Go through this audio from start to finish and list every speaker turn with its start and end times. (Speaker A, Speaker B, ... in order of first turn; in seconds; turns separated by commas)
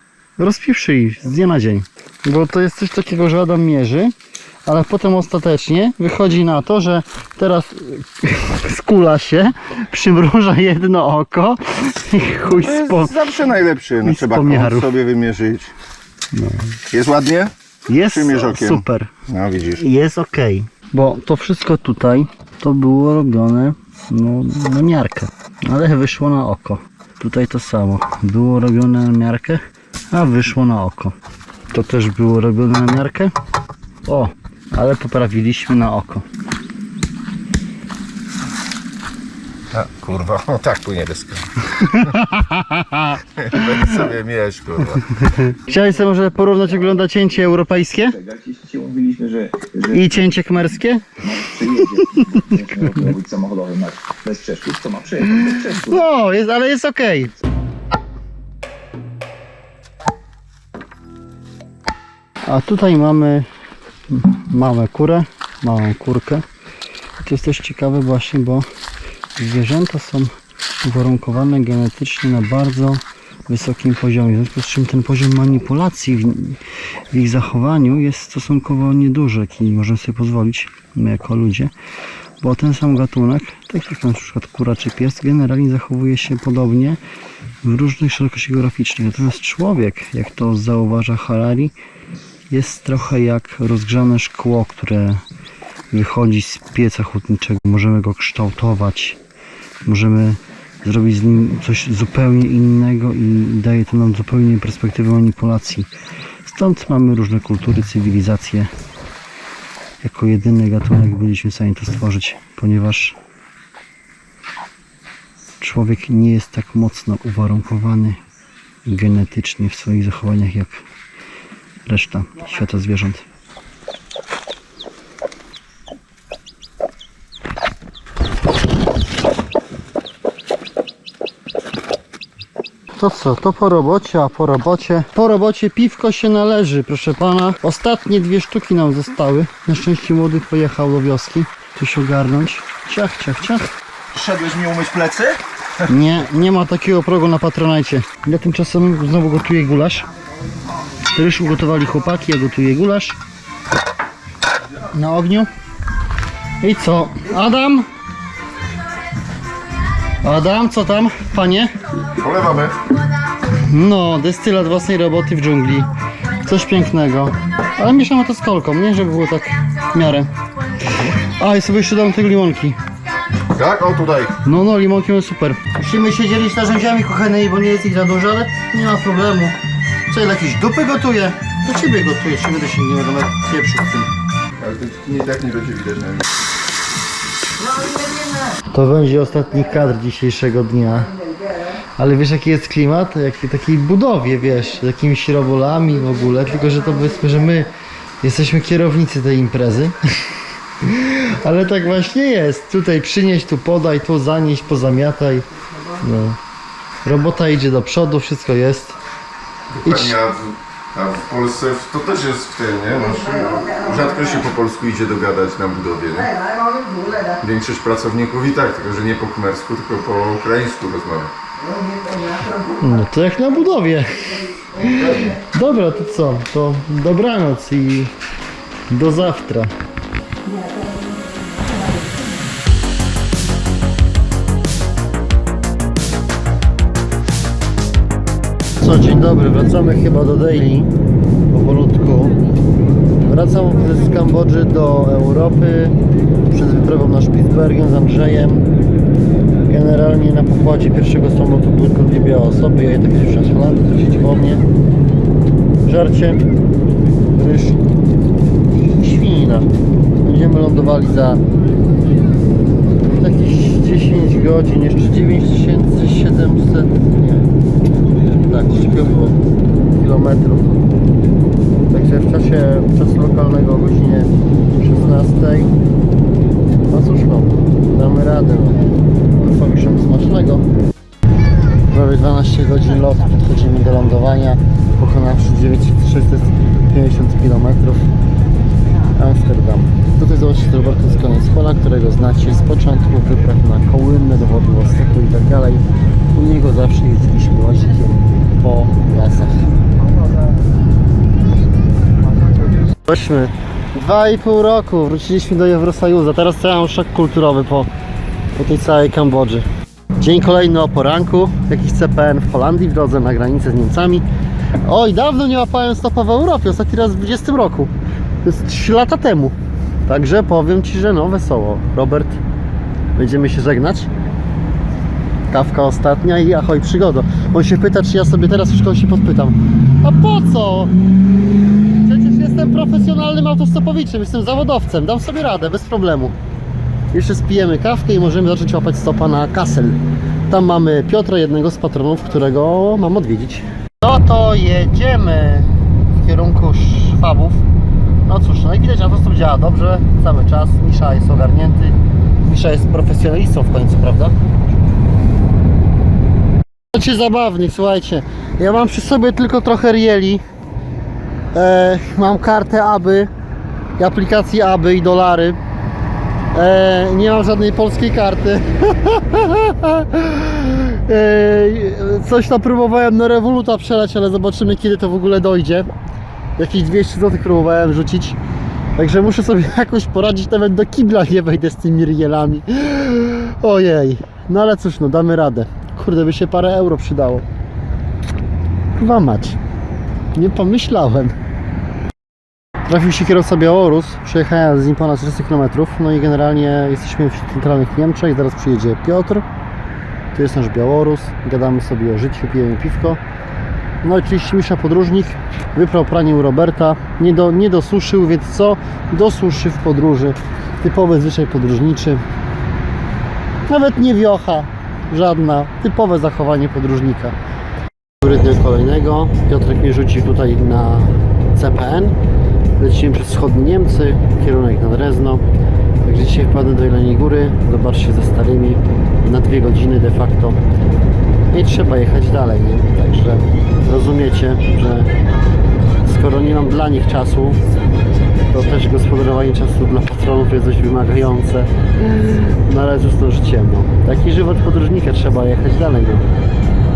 Speaker A: 0.4-4.1, Speaker A: 4.7-13.2, Speaker B: 12.4-15.7, Speaker A: 14.0-14.9, Speaker A: 16.3-16.8, Speaker B: 16.9-19.8, Speaker A: 17.9-19.1, Speaker A: 19.8-31.1, Speaker A: 31.7-33.3, Speaker A: 34.0-36.2, Speaker B: 39.7-41.5, Speaker A: 41.7-43.9, Speaker B: 43.4-45.1, Speaker A: 45.1-48.2, Speaker C: 47.9-50.2, Speaker A: 49.9-51.2, Speaker C: 51.2-56.0, Speaker A: 51.8-52.2, Speaker A: 55.4-57.3, Speaker A: 62.4-63.5, Speaker A: 64.1-66.4, Speaker A: 67.2-68.7, Speaker A: 69.4-76.6, Speaker A: 77.1-81.7, Speaker A: 82.4-87.0, Speaker A: 87.6-91.7, Speaker A: 92.5-95.2, Speaker A: 95.9-99.2, Speaker A: 99.8-105.9, Speaker A: 106.4-108.7, Speaker A: 110.0-113.2, Speaker A: 115.6-118.2, Speaker A: 118.8-120.8, Speaker A: 121.8-123.2, Speaker A: 132.9-143.7, Speaker B: 144.1-145.4, Speaker A: 145.9-150.1, Speaker A: 151.1-153.2, Speaker A: 154.9-155.5, Speaker A: 156.6-157.9, Speaker A: 160.2-161.7, Speaker B: 162.2-162.8, Speaker A: 163.5-165.9, Speaker A: 166.4-170.3, Speaker A: 171.2-172.8, Speaker B: 173.5-174.3, Speaker A: 174.4-179.6, Speaker A: 180.1-184.1, Speaker B: 184.6-186.3, Speaker A: 188.7-191.1, Speaker A: 192.0-197.7, Speaker A: 198.2-199.9, Speaker A: 200.8-206.4, Speaker A: 207.1-209.0, Speaker B: 209.7-216.3, Speaker A: 209.8-210.1, Speaker B: 217.4-221.3, Speaker A: 222.8-228.1, Speaker A: 228.9-229.7, Speaker A: 238.8-240.9, Speaker A: 241.5-242.4, Speaker A: 243.2-245.9, Speaker A: 246.5-248.6, Speaker A: 249.7-254.6, Speaker A: 255.8-256.4, Speaker A: 257.3-257.8, Speaker A: 258.8-259.7, Speaker A: 260.2-261.4, Speaker A: 263.0-267.5, Speaker A: 268.4-269.4, Speaker A: 269.9-270.9, Speaker A: 271.9-275.8, Speaker A: 276.8-280.7, Speaker A: 281.9-288.1, Speaker A: 289.1-299.7, Speaker A: 303.1-307.9, Speaker A: 308.5-309.7, Speaker A: 310.2-314.2, Speaker A: 314.8-317.9, Speaker A: 318.4-322.4, Speaker A: 323.1-324.1, Speaker A: 325.5-330.9, Speaker A: 332.0-336.3, Speaker A: 337.1-347.6, Speaker A: 348.2-354.4, Speaker A: 356.9-360.4, Speaker A: 361.5-363.3, Speaker A: 364.0-365.6, Speaker A: 366.5-375.9, Speaker A: 376.6-378.4, Speaker A: 378.9-387.4, Speaker A: 388.9-389.6, Speaker A: 390.3-391.4, Speaker A: 392.9-399.4, Speaker A: 400.3-403.2, Speaker A: 404.0-412.2, Speaker A: 413.7-417.4, Speaker A: 418.2-422.2, Speaker A: 422.8-425.4, Speaker A: 426.0-430.6, Speaker A: 431.5-435.1, Speaker A: 436.0-437.6, Speaker A: 438.5-446.3